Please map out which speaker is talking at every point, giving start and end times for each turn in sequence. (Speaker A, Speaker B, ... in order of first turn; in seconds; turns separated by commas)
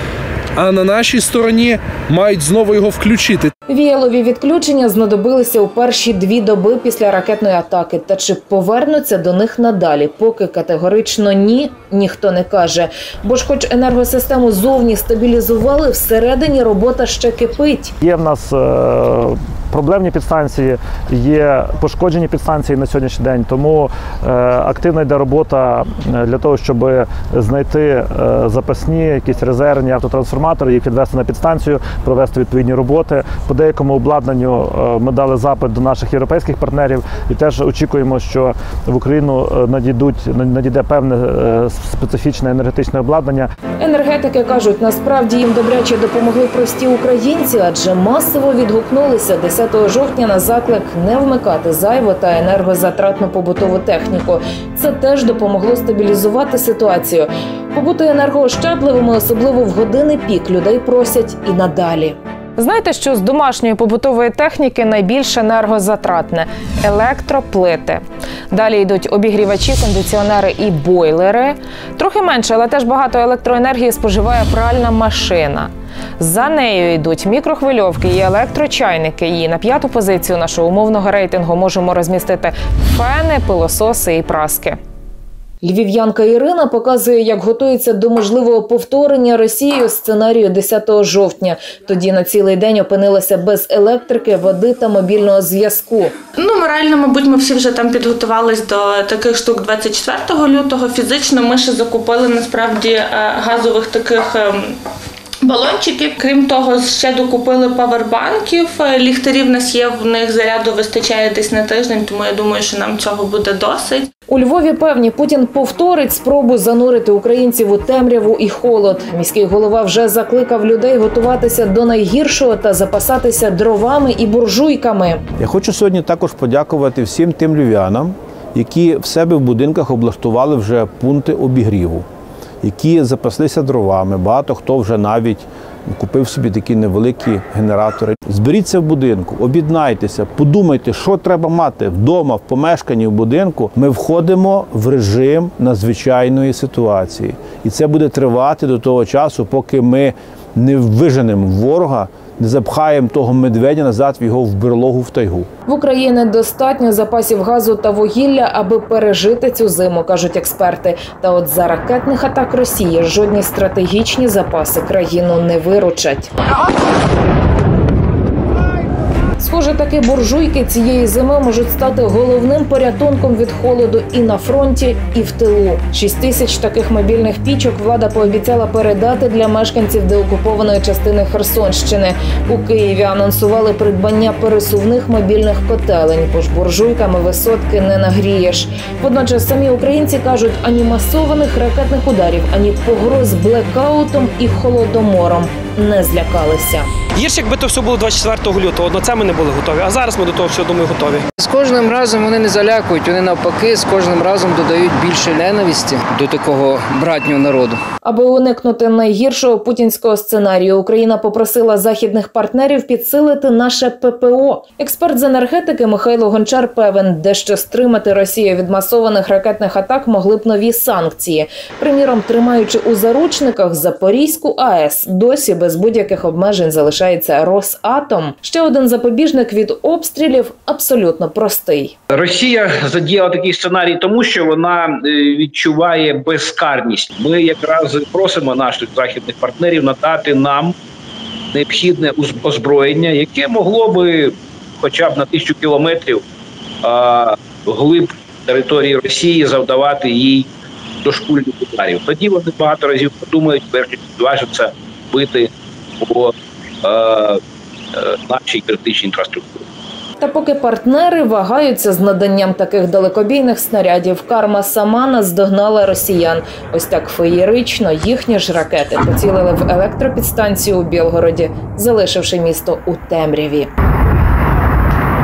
Speaker A: 0.6-3.5, Speaker B: 3.7-17.9, Speaker C: 18.0-43.5, Speaker B: 43.8-84.8, Speaker B: 85.6-96.1, Speaker D: 96.4-104.7, Speaker D: 105.4-114.1, Speaker B: 114.3-125.2, Speaker E: 125.4-132.0, Speaker E: 132.6-155.5, Speaker B: 155.7-166.3, Speaker B: 169.4-196.9, Speaker F: 197.2-201.2, Speaker G: 201.3-207.8, Speaker B: 208.0-231.9, Speaker H: 232.1-240.7, Speaker H: 241.5-246.2, Speaker H: 246.8-250.5, Speaker H: 251.0-255.5, Speaker H: 256.0-256.3, Speaker H: 256.8-257.4, Speaker H: 257.9-259.6, Speaker B: 260.2-273.7